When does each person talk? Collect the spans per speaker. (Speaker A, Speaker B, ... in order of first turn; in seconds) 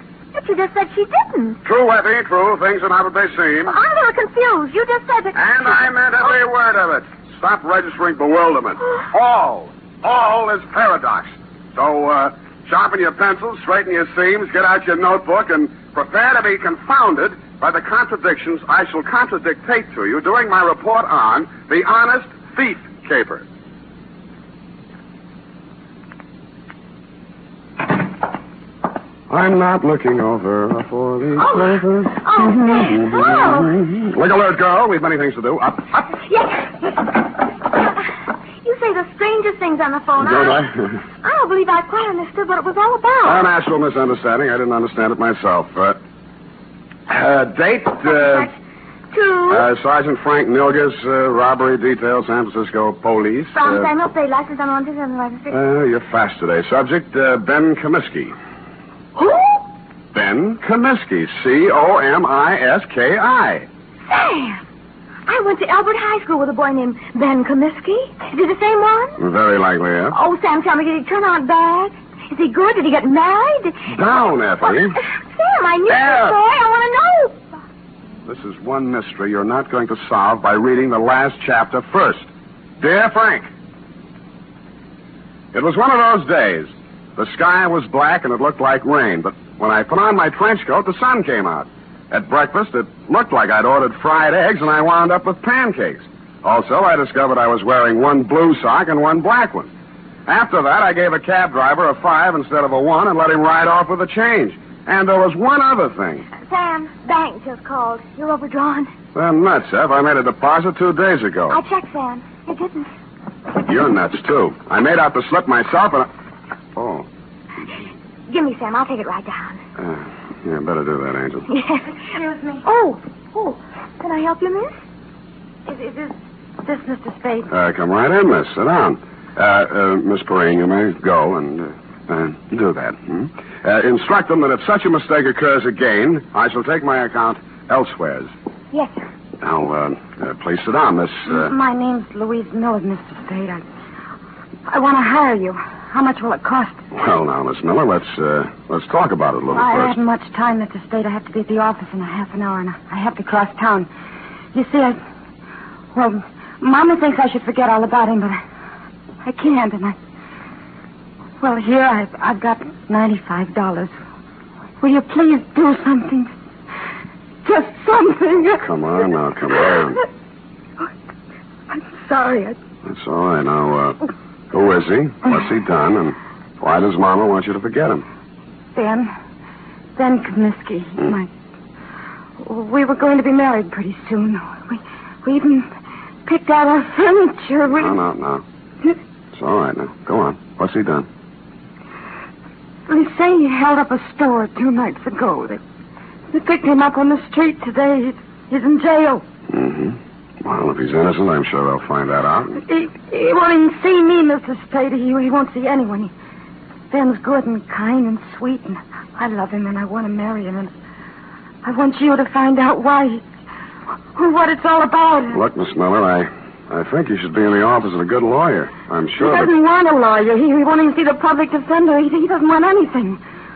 Speaker A: 0.3-1.6, 3.7-5.7, 31.4-33.8, 36.2-37.2, 38.6-40.6, 41.2-43.5, 48.0-48.5, 49.1-49.7, 53.5-55.6, 59.2-59.6, 64.1-64.6, 65.3-69.2, 70.1-73.9, 74.7-77.5, 106.3-108.9, 111.5-112.9, 118.3-119.6, 121.5-122.0, 122.6-124.8, 138.7-139.0
Speaker B: 1.6-3.8, 5.3-23.4, 29.3-36.1, 40.2-41.0, 43.2-46.0, 47.1-48.5, 49.5-53.9, 55.5-58.4, 60.1-63.7, 69.2-70.2, 73.9-75.0, 75.9-76.4, 78.3-83.5, 85.5-99.7, 100.3-106.3, 109.2-111.6, 113.6-116.1, 116.8-117.1, 119.8-121.5, 127.5-138.3, 139.4-141.5, 146.9-149.9, 168.6-170.0, 172.8-174.0, 174.5-178.1, 187.7-188.4, 189.3-191.1, 199.5-202.6, 215.3-219.5
Speaker C: 122.1-122.6, 125.7-127.5, 141.3-143.6, 144.7-146.8, 149.5-153.9, 154.5-155.0, 155.9-158.4, 159.2-160.0, 161.4-163.9, 164.8-166.3, 167.4-168.6, 171.7-172.6, 178.8-179.1, 180.0-181.3, 182.4-185.7, 186.2-187.9, 192.9-195.6, 196.3-199.2, 202.6-206.1, 206.9-210.7, 211.6-213.2, 214.2-215.4, 219.2-223.2